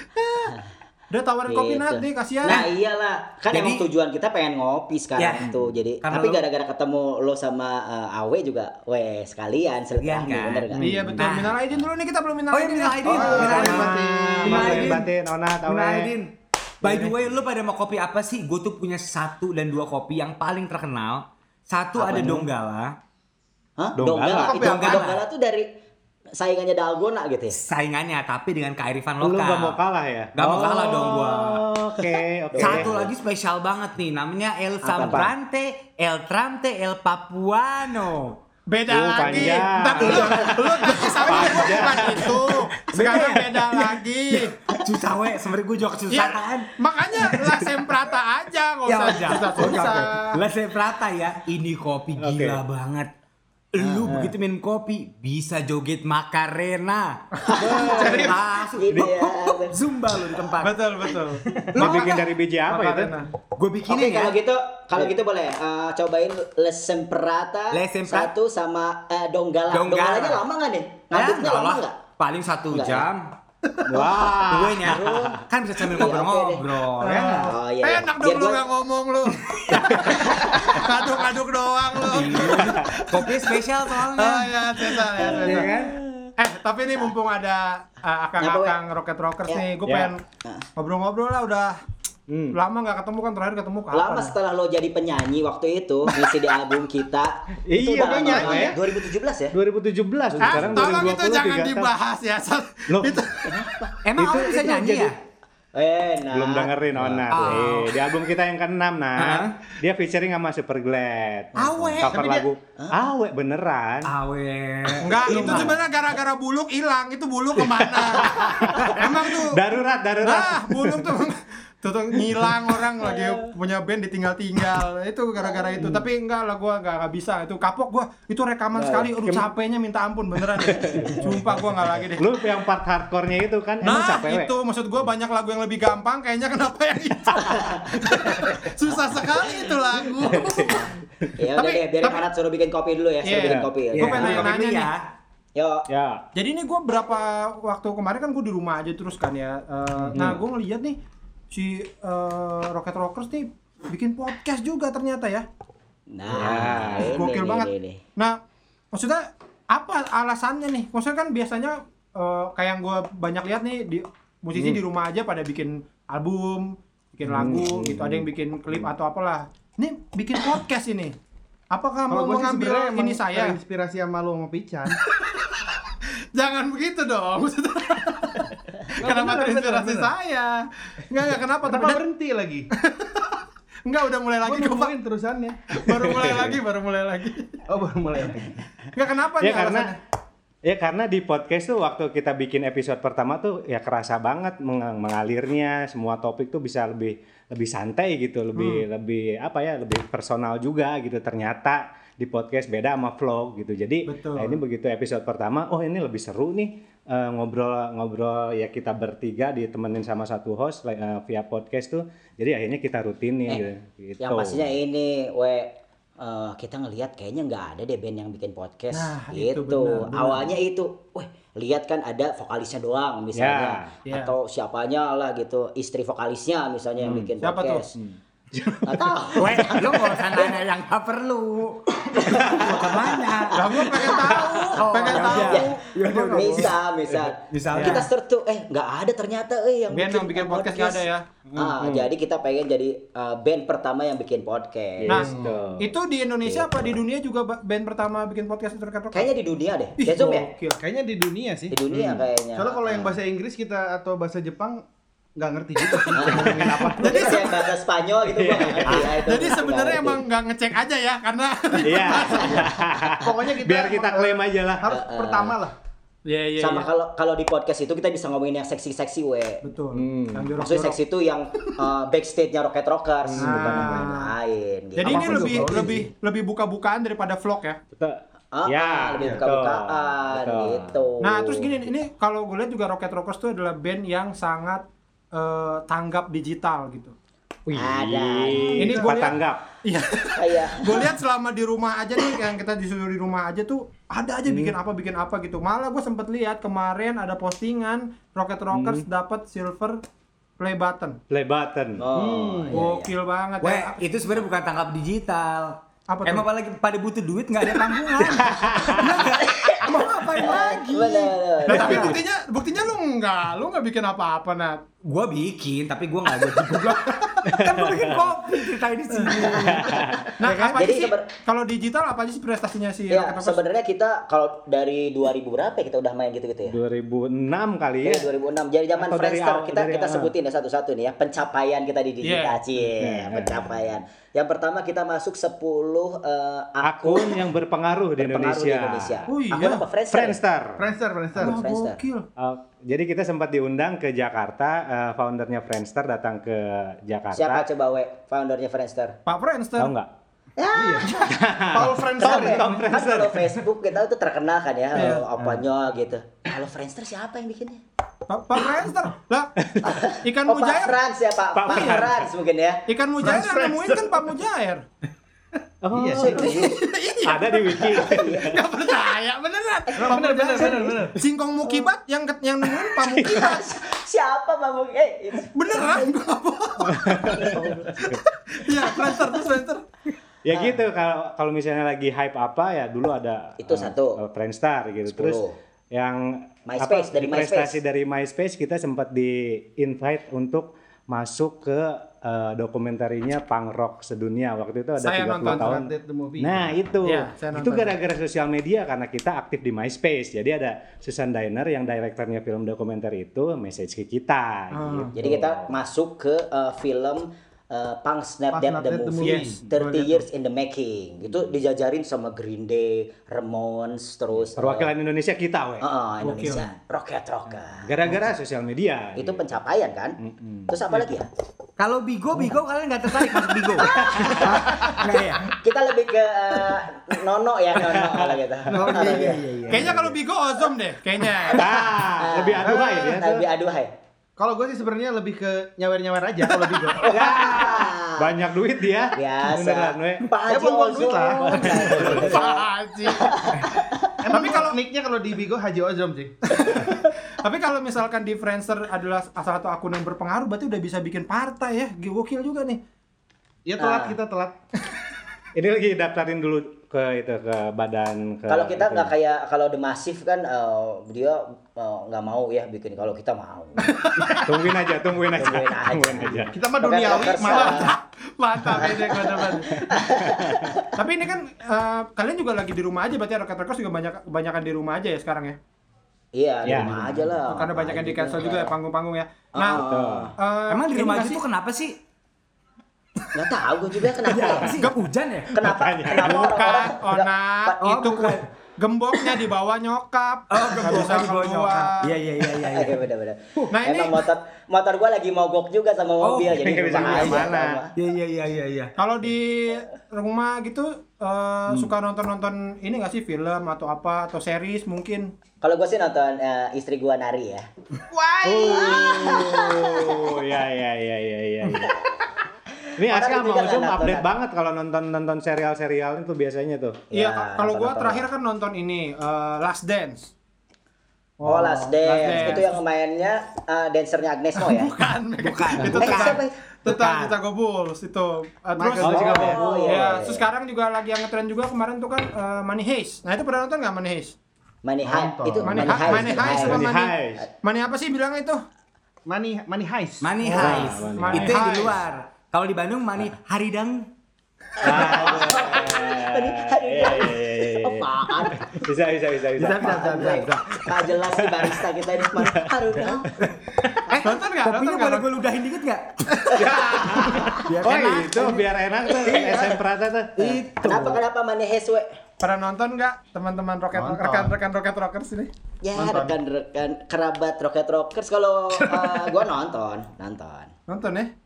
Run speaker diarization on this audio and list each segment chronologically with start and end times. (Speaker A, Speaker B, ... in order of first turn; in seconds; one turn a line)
Speaker A: 0.2-0.5
Speaker A: 1.1-2.7
Speaker B: 1.5-10.8
Speaker C: 3.5-3.8
Speaker C: 5.2-6.4
Speaker C: 10.0-11.6
Speaker A: 10.8-14.9
Speaker D: 10.8-11.1
Speaker C: 12.5-15.1
Speaker E: 13.0-14.9
Speaker D: 13.5-16.1
Speaker C: 15.7-23.0
Speaker A: 16.8-17.1
Speaker D: 22.0-22.4
Speaker B: 22.0-22.4
Speaker B: 23.8-25.6
Speaker D: 24.0-24.6
Speaker E: 24.3-25.2
Speaker C: 24.5-25.2
Speaker B: 26.4-27.6
Speaker C: 27.5-29.8
Speaker D: 29.2-32.9
Speaker C: 30.4-31.6
Speaker B: 32.5-33.1
Speaker C: 32.6-38.4
Speaker B: 34.8-35.3
Speaker A: 38.7-44.6
Speaker D: 38.9-42.3
Speaker C: 40.0-41.7
Speaker C: 42.9-47.7
Speaker A: 46.1-50.3
Speaker C: 48.9-53.1
Speaker D: 52.2-52.6
Speaker C: 53.7-62.1
Speaker D: 54.0-54.3
Speaker B: 57.4-59.7
Speaker E: 58.0-58.4
Speaker A: 60.6-63.3
Speaker D: 61.7-63.1
Speaker C: 63.6-64.3
Speaker B: 63.9-72.0
Speaker C: 67.7-68.3
Speaker C: 69.7-70.4
Speaker C: 71.1-73.3
Speaker B: 72.7-73.1
Speaker D: 73.9-75.2
Speaker C: 74.5-77.5
Speaker B: 74.8-76.6
Speaker A: 77.0-85.7
Speaker B: 77.5-78.6
Speaker D: 79.7-80.1
Speaker B: 80.1-80.8
Speaker C: 82.0-86.0
Speaker A: 86.4-90.2
Speaker B: 88.4-88.8
Speaker D: 89.8-90.1
Speaker A: 90.8-91.8
Speaker D: 92.3-92.6
Speaker A: 92.5-94.3
Speaker B: 93.9-99.5
Speaker D: 97.7-98.8
Speaker E: 98.0-98.7
Speaker D: 99.5-101.9
Speaker A: 100.4-103.8
Speaker C: 100.4-100.9
Speaker D: 102.9-103.2
Speaker B: 103.5-103.9
Speaker C: 104.0-105.2
Speaker D: 104.2-105.1
Speaker B: 105.7-107.2
Speaker D: 106.3-114.1
Speaker C: 107.3-107.9
Speaker C: 109.2-109.5
Speaker C: 111.6-112.2
Speaker E: 112.1-112.4
Speaker C: 114.0-115.7
Speaker A: 115.0-119.6
Speaker D: 115.3-115.7
Speaker D: 117.6-121.1
Speaker A: 120.2-132.2
Speaker D: 128.8-129.5
Speaker D: 130.7-131.3
Speaker D: 132.2-134.5
Speaker A: 133.8-140.9
Speaker D: 140.3-140.8
Speaker B: 141.4-144.4
Speaker A: 141.6-142.2
Speaker A: 143.2-144.9
Speaker D: 143.3-143.6
Speaker C: 143.9-145.0
Speaker B: 145.5-145.9
Speaker D: 145.9-146.2
Speaker A: 146.3-151.0
Speaker D: 150.1-150.4
Speaker A: 151.5-155.5
Speaker B: 156.1-158.0
Speaker D: 156.3-157.2
Speaker A: 156.4-158.4
Speaker A: 158.9-171.2
Speaker D: 164.5-164.8
Speaker D: 167.2-168.9
Speaker A: 171.7-173.6
Speaker E: 172.1-175.0
Speaker A: 175.1-175.5
Speaker A: 176.3-182.0
Speaker E: 179.0-180.1
Speaker E: 181.6-182.7
Speaker A: 182.8-183.3
Speaker A: 183.8-184.9
Speaker E: 184.4-185.6
Speaker A: 185.7-187.6
Speaker E: 187.7-188.9
Speaker A: 188.9-190.0
Speaker D: 189.4-189.9
Speaker D: 190.6-214.7
Speaker A: 198.6-198.8
Speaker A: 204.1-204.6
Speaker B: 214.2-227.9
Speaker A: 218.9-220.5
Speaker D: 223.3-223.9
Speaker A: 224.1-224.3
Speaker D: 227.0-227.3
Speaker A: 227.4-227.9
Speaker D: 227.9-229.1
Speaker B: 228.9-230.5
Speaker C: 229.4-236.7
Speaker B: 232.2-232.7
Speaker A: 232.7-236.7
Speaker B: 233.5-235.7
Speaker B: 236.3-245.2
Speaker C: 237.5-238.0
Speaker A: 237.7-238.1
Speaker A: 239.9-241.3
Speaker D: 241.5-242.1
Speaker D: 245.0-245.9
Speaker A: 245.1-249.3
Speaker E: 245.2-245.5
Speaker B: 246.4-246.8
Speaker B: 249.1-250.5
Speaker A: 250.0-250.8
Speaker E: 250.8-251.7
Speaker B: 251.7-253.1
Speaker E: 252.5-254.8
Speaker E: 255.4-257.0
Speaker B: 256.1-260.2
Speaker D: 256.3-257.4
Speaker A: 256.9-257.6
Speaker D: 258.3-259.2
Speaker A: 258.9-262.8
Speaker D: 261.8-264.9
Speaker E: 263.2-265.7
Speaker B: 264.9-265.6
Speaker A: 266.2-266.9
Speaker B: 266.6-269.6
Speaker A: 269.6-271.0
Speaker D: 269.9-270.6
Speaker B: 270.6-275.9
Speaker D: 273.2-274.1
Speaker A: 273.4-274.3
Speaker A: 275.0-277.8
Speaker E: 275.0-276.1
Speaker D: 277.9-281.0
Speaker B: 278.5-281.8
Speaker E: 279.2-279.4
Speaker A: 281.2-284.8
Speaker A: 285.3-287.1
Speaker D: 287.7-289.6
Speaker B: 287.8-288.8
Speaker E: 288.8-289.1
Speaker A: 288.8-300.0
Speaker B: 290.4-291.0
Speaker D: 294.4-294.8
Speaker D: 298.7-299.1
Speaker A: 300.6-301.2
Speaker D: 301.3-302.0
Speaker B: 302.0-303.1
Speaker E: 302.1-302.8
Speaker A: 302.7-304.4
Speaker C: 303.6-312.2
Speaker A: 306.1-306.4
Speaker D: 308.4-309.1
Speaker B: 309.3-312.1
Speaker A: 309.9-314.8
Speaker C: 315.0-320.8
Speaker D: 317.5-318.3
Speaker A: 319.1-319.7
Speaker D: 319.5-320.3
Speaker A: 320.4-323.6
Speaker B: 320.7-321.3
Speaker B: 323.1-326.8
Speaker D: 326.7-328.3
Speaker B: 328.0-337.4
Speaker D: 329.0-330.3
Speaker A: 332.2-332.6
Speaker D: 333.0-333.8
Speaker D: 336.8-339.2
Speaker B: 338.2-340.4
Speaker A: 339.3-339.8
Speaker D: 340.1-340.8
Speaker E: 340.8-341.6
Speaker B: 341.4-342.0
Speaker A: 341.4-342.3
Speaker D: 342.4-347.7
Speaker B: 347.3-349.2
Speaker A: 349.2-349.9
Speaker D: 349.8-350.1
Speaker B: 350.6-351.4
Speaker E: 350.7-351.1
Speaker D: 351.2-353.6
Speaker E: 351.7-352.7
Speaker B: 352.2-357.8
Speaker A: 354.9-355.2
Speaker A: 358.3-359.5
Speaker B: 359.8-362.8
Speaker A: 360.2-360.9
Speaker D: 361.5-362.3
Speaker A: 361.7-362.0
Speaker A: 362.9-364.8
Speaker E: 363.2-364.2
Speaker D: 365.8-366.7
Speaker E: 365.9-366.4
Speaker B: 366.1-366.7
Speaker A: 366.4-373.8
Speaker D: 367.2-368.4
Speaker B: 368.0-368.5
Speaker B: 369.9-371.0
Speaker E: 370.0-371.1
Speaker D: 373.0-373.4
Speaker B: 373.1-375.5
Speaker A: 375.5-379.8
Speaker D: 376.9-378.2
Speaker B: 377.3-377.9
Speaker D: 380.4-405.7
Speaker B: 383.6-384.2
Speaker B: 385.1-385.6
Speaker B: 386.7-387.8
Speaker A: 395.0-395.8
Speaker E: 395.4-396.8
Speaker A: 397.0-397.9
Speaker A: 404.7-405.1
Speaker B: 405.1-414.9
Speaker E: 408.5-409.6
Speaker A: 409.2-410.3
Speaker D: 414.6-415.9
Speaker B: 415.8-417.9
Speaker A: 416.2-416.7
Speaker D: 417.9-419.5
Speaker B: 419.1-420.2
Speaker D: 420.2-421.1
Speaker B: 420.7-421.2
Speaker C: 421.8-425.5
Speaker D: 423.8-424.6
Speaker B: 423.9-424.8
Speaker B: 425.6-429.4
Speaker D: 427.8-429.0
Speaker C: 428.7-430.1
Speaker E: 428.9-429.4
Speaker A: 429.7-431.6
Speaker D: 431.5-433.4
Speaker B: 432.2-433.9
Speaker E: 432.6-432.9
Speaker E: 434.4-437.1
Speaker B: 437.0-438.2
Speaker D: 437.0-440.2
Speaker B: 439.1-442.6
Speaker E: 440.5-442.3
Speaker D: 441.5-442.4
Speaker A: 442.0-443.5
Speaker B: 443.2-444.0
Speaker E: 444.2-446.3
Speaker A: 444.3-444.8
Speaker A: 446.5-452.8
Speaker E: 453.6-454.6
Speaker B: 453.8-454.2
Speaker D: 455.5-459.1
Speaker B: 458.5-463.9
Speaker A: 463.9-464.6
Speaker D: 464.4-466.5
Speaker B: 465.3-467.9
Speaker E: 466.5-467.9
Speaker A: 467.5-469.8
Speaker B: 468.7-470.9
Speaker D: 470.3-470.6
Speaker A: 470.9-475.6
Speaker B: 476.3-478.7
Speaker D: 476.6-477.3
Speaker A: 477.5-479.9
Speaker B: 479.5-480.3
Speaker D: 479.7-480.3
Speaker A: 480.4-481.4
Speaker C: 480.7-481.9
Speaker B: 483.3-484.8
Speaker C: 484.2-485.5
Speaker B: 485.5-488.0
Speaker D: 485.6-486.5
Speaker A: 486.1-492.1
Speaker C: 487.8-488.4
Speaker C: 490.5-493.0
Speaker B: 492.7-497.9
Speaker A: 493.7-494.2
Speaker C: 496.2-497.4
Speaker D: 496.5-497.8
Speaker C: 497.9-498.9
Speaker A: 499.0-505.3
Speaker B: 505.6-507.7
Speaker E: 508.1-509.3
Speaker D: 508.4-511.9
Speaker B: 508.6-510.3
Speaker D: 513.0-517.0
Speaker B: 513.1-514.3
Speaker B: 517.1-518.2
Speaker A: 517.1-520.3
Speaker A: 521.4-522.8
Speaker B: 521.4-524.9
Speaker A: 524.6-534.3
Speaker C: 525.4-526.4
Speaker B: 525.9-526.6
Speaker D: 526.9-527.2
Speaker E: 528.8-529.9
Speaker D: 529.0-529.7
Speaker B: 529.0-530.4
Speaker B: 534.8-536.8
Speaker E: 535.0-536.6
Speaker A: 535.6-538.6
Speaker D: 536.1-537.4
Speaker E: 539.3-540.4
Speaker C: 540.2-544.1
Speaker A: 540.4-542.0
Speaker D: 540.6-541.7
Speaker B: 544.8-548.7
Speaker D: 544.8-550.4
Speaker E: 549.6-550.8
Speaker B: 549.7-553.3
Speaker D: 552.4-553.1
Speaker C: 554.1-556.2
Speaker A: 554.2-555.3
Speaker A: 556.4-557.1
Speaker D: 556.5-560.6
Speaker C: 557.6-558.6
Speaker C: 559.2-559.8
Speaker C: 560.4-561.2
Speaker B: 560.4-562.1
Speaker A: 562.4-565.5
Speaker E: 563.9-564.5
Speaker B: 565.8-570.7
Speaker E: 566.0-566.4
Speaker A: 570.9-571.3